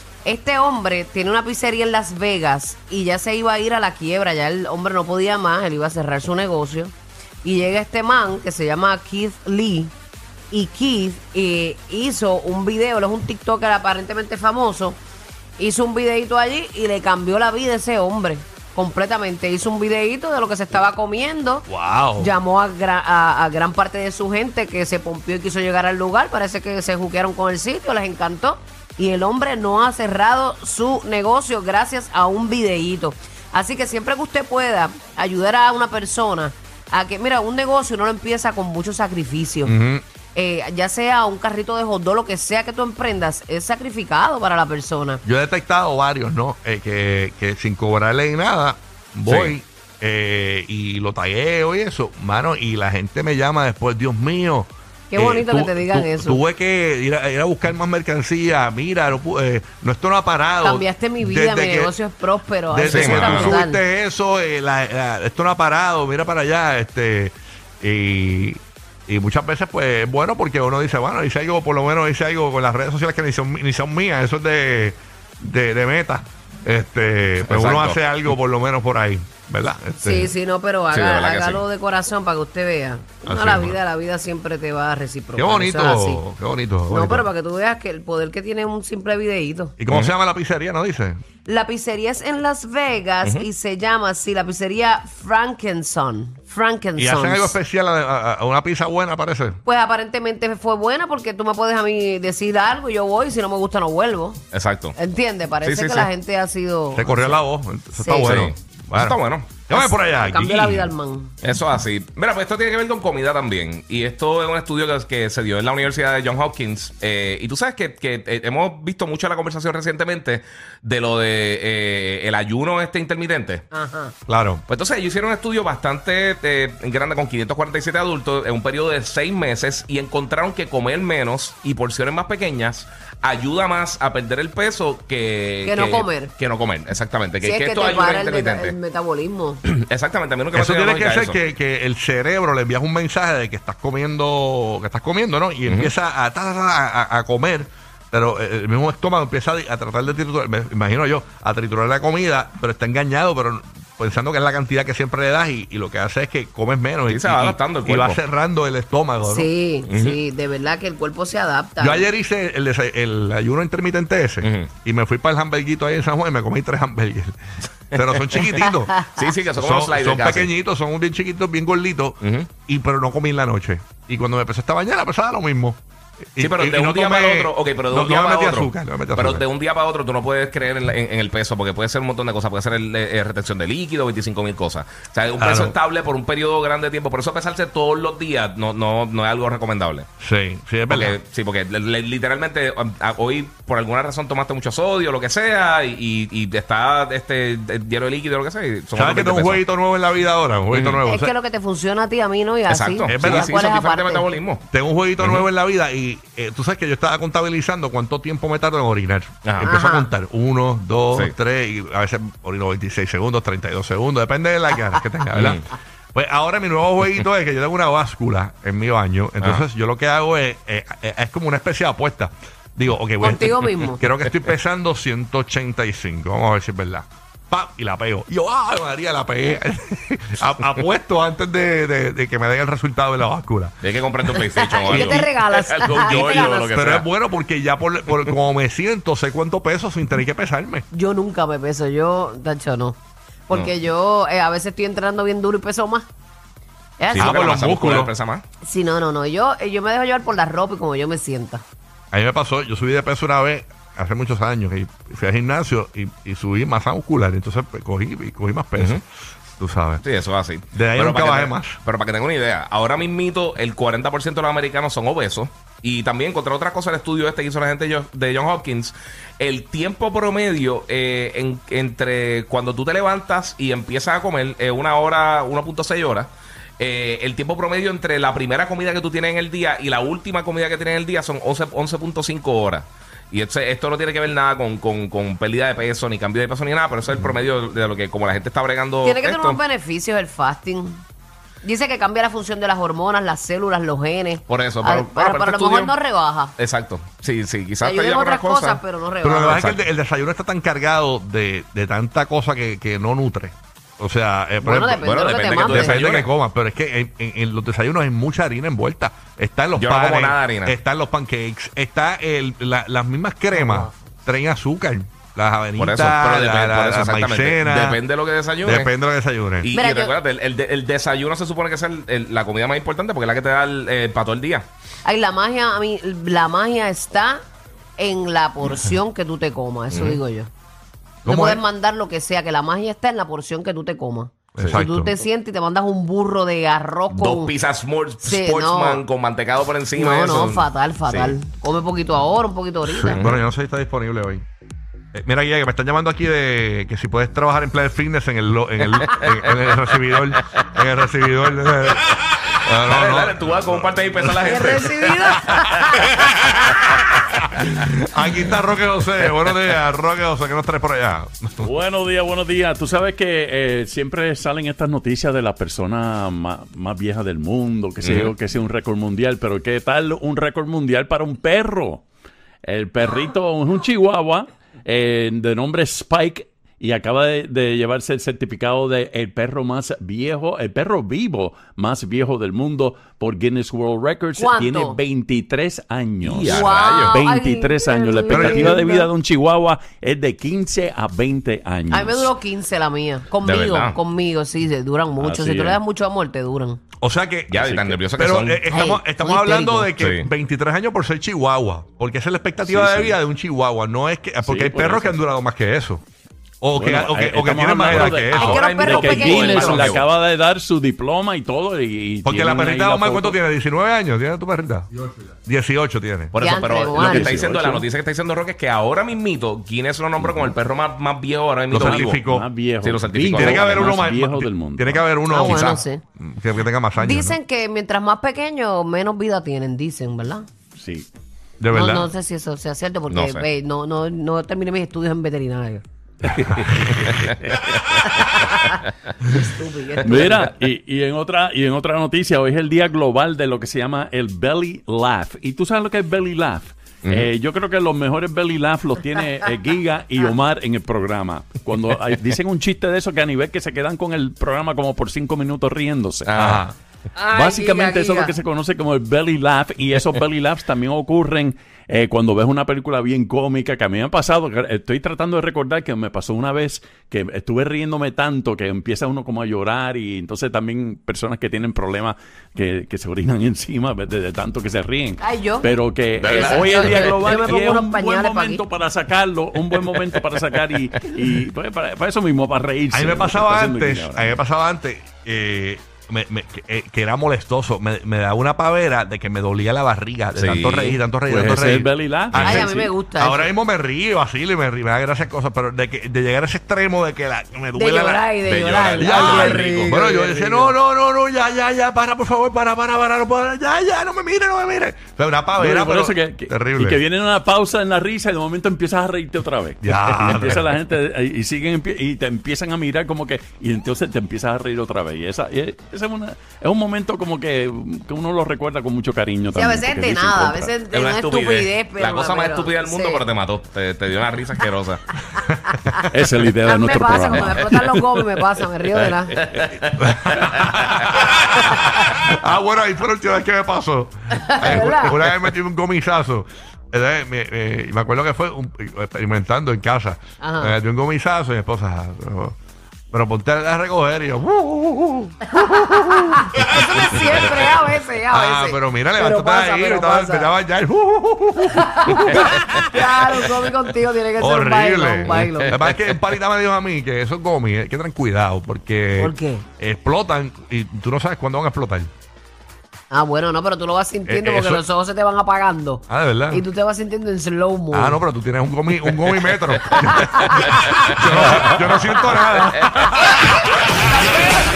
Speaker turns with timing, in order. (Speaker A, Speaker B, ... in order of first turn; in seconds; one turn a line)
Speaker A: 0.2-6.9
Speaker A: 7.4-9.9
Speaker A: 10.5-15.0
Speaker A: 15.6-21.6
Speaker B: 21.7-22.3
Speaker A: 22.2-39.7
Speaker B: 39.6-40.0
Speaker A: 40.3-45.2
Speaker B: 45.2-62.0
Speaker C: 49.2-49.5
Speaker A: 55.1-56.4
Speaker A: 60.6-63.8
Speaker B: 62.7-80.3
Speaker C: 62.8-63.6
Speaker C: 77.5-78.0
Speaker A: 80.0-86.2
Speaker C: 80.9-81.6
Speaker B: 83.2-83.8
Speaker B: 85.3-87.3
Speaker A: 86.9-89.7
Speaker B: 89.8-91.2
Speaker A: 91.5-97.6
Speaker B: 97.0-99.6
Speaker A: 99.6-104.4
Speaker C: 104.5-105.0
Speaker A: 105.0-107.4
Speaker C: 105.6-106.1
Speaker B: 106.9-110.9
Speaker A: 108.0-108.4
Speaker C: 108.2-109.6
Speaker A: 109.7-111.3
Speaker C: 111.4-123.6
Speaker A: 123.7-124.1
Speaker B: 124.3-124.6
Speaker C: 124.7-138.8
Speaker A: 135.6-136.3
Speaker A: 137.4-139.6
Speaker C: 139.7-141.4
Speaker B: 140.5-159.5
Speaker C: 145.6-145.9
Speaker C: 157.1-158.2
Speaker A: 159.2-162.1
Speaker C: 159.9-160.2
Speaker B: 161.8-167.4
Speaker C: 164.4-164.7
Speaker B: 167.9-175.8
Speaker C: 168.0-168.6
Speaker C: 169.2-170.5
Speaker C: 172.2-172.5
Speaker B: 176.3-179.4
Speaker C: 176.4-190.1
Speaker B: 185.4-185.8
Speaker B: 190.2-191.2
Speaker C: 190.9-199.6
Speaker B: 198.9-201.3
Speaker C: 200.7-201.0
Speaker A: 201.0-204.4
Speaker C: 202.7-204.6
Speaker B: 203.0-203.6
Speaker B: 204.7-233.8
Speaker C: 205.2-205.5
Speaker C: 209.4-209.7
Speaker A: 209.6-210.1
Speaker C: 215.3-215.7
Speaker A: 223.2-224.0
Speaker C: 233.8-237.1
Speaker A: 234.3-236.7
Speaker B: 234.8-235.3
Speaker B: 235.9-240.8
Speaker A: 240.9-246.1
Speaker A: 247.0-247.3
Speaker C: 247.1-248.4
Speaker B: 247.2-248.1
Speaker A: 248.6-251.6
Speaker B: 252.1-259.0
Speaker C: 258.8-259.0
Speaker B: 259.6-260.0
Speaker C: 260.0-289.6
Speaker B: 260.7-261.8
Speaker A: 289.0-291.0
Speaker A: 291.6-296.5
Speaker C: 294.5-295.9
Speaker C: 296.6-298.8
Speaker A: 297.8-299.6
Speaker B: 299.2-318.1
Speaker C: 299.4-299.8
Speaker A: 304.6-306.0
Speaker C: 305.0-306.3
Speaker C: 309.8-310.8
Speaker A: 313.5-313.9
Speaker C: 315.8-318.9
Speaker B: 318.6-319.7
Speaker C: 319.6-324.7
Speaker A: 319.7-320.2
Speaker A: 325.0-327.4
Speaker A: 328.0-330.5
Speaker C: 329.9-330.2
Speaker B: 331.2-331.6
Speaker A: 331.2-337.5
Speaker B: 334.5-335.1
Speaker C: 337.1-341.4
Speaker A: 338.2-339.0
Speaker A: 339.9-343.3
Speaker B: 342.9-344.4
Speaker B: 345.1-354.5
Speaker C: 352.8-355.4
Speaker A: 354.4-356.5
Speaker B: 357.1-361.7
Speaker D: 361.6-372.0
Speaker C: 368.0-368.3
Speaker D: 372.6-392.3
Speaker A: 384.4-385.0
Speaker C: 386.2-387.2
Speaker A: 386.4-389.1
Speaker B: 388.3-388.8
Speaker A: 391.9-396.8
Speaker C: 393.4-394.0
Speaker D: 395.1-395.8
Speaker B: 397.0-397.6
Speaker C: 397.5-398.6
Speaker D: 397.6-398.0
Speaker B: 398.1-406.0
Speaker A: 398.7-399.9
Speaker C: 400.0-400.3
Speaker D: 402.6-403.1
Speaker D: 404.4-405.2
Speaker B: 406.6-409.9
Speaker D: 406.7-413.4
Speaker C: 407.9-410.0
Speaker A: 408.3-409.9
Speaker B: 412.2-414.9
Speaker B: 415.4-416.3
Speaker C: 416.3-422.3
Speaker A: 416.4-417.4
Speaker D: 416.8-417.9
Speaker B: 421.7-422.5
Speaker D: 421.7-425.1
Speaker C: 422.8-423.9
Speaker B: 423.3-427.4
Speaker A: 425.3-426.0
Speaker C: 425.3-425.8
Speaker A: 427.0-430.5
Speaker D: 430.8-431.1
Speaker B: 431.6-432.1
Speaker A: 431.7-435.8
Speaker C: 433.1-433.4
Speaker D: 436.3-436.9
Speaker B: 436.3-437.2
Speaker C: 437.1-438.9
Speaker A: 438.0-438.7
Speaker A: 439.2-440.5
Speaker D: 440.0-456.6
Speaker C: 447.0-447.3
Speaker C: 456.3-456.6
Speaker B: 456.4-456.7
Speaker A: 457.1-458.4
Speaker D: 457.3-484.4
Speaker A: 475.2-478.6
Speaker C: 476.1-477.3
Speaker B: 482.9-498.2
Speaker C: 490.4-491.0
Speaker D: 491.3-492.9
Speaker A: 492.4-493.5
Speaker A: 497.7-500.7
Speaker C: 498.4-499.5
Speaker B: 499.0-507.0
Speaker D: 499.0-500.4
Speaker D: 505.6-520.7
Speaker B: 509.8-510.7
Speaker A: 519.5-523.2
Speaker C: 520.9-525.0
Speaker D: 526.1-529.6
Speaker A: 526.6-529.4
Speaker C: 529.4-531.3
Speaker B: 530.0-542.5
Speaker A: 531.6-531.9
Speaker A: 534.4-535.4
Speaker A: 540.4-540.7
Speaker B: 543.1-547.7
Speaker A: 545.5-550.5
Speaker B: 548.3-553.1
Speaker A: 551.7-555.8
Speaker B: 554.4-562.1
Speaker C: 555.2-556.0
Speaker A: 559.2-559.6
Speaker A: 563.1-568.2
Speaker B: 564.3-564.8
Speaker B: 566.1-566.6
Speaker B: 567.9-573.4
Speaker C: 569.9-570.2
Speaker A: 570.0-571.0
Speaker C: 570.8-571.5
Speaker C: 572.3-573.1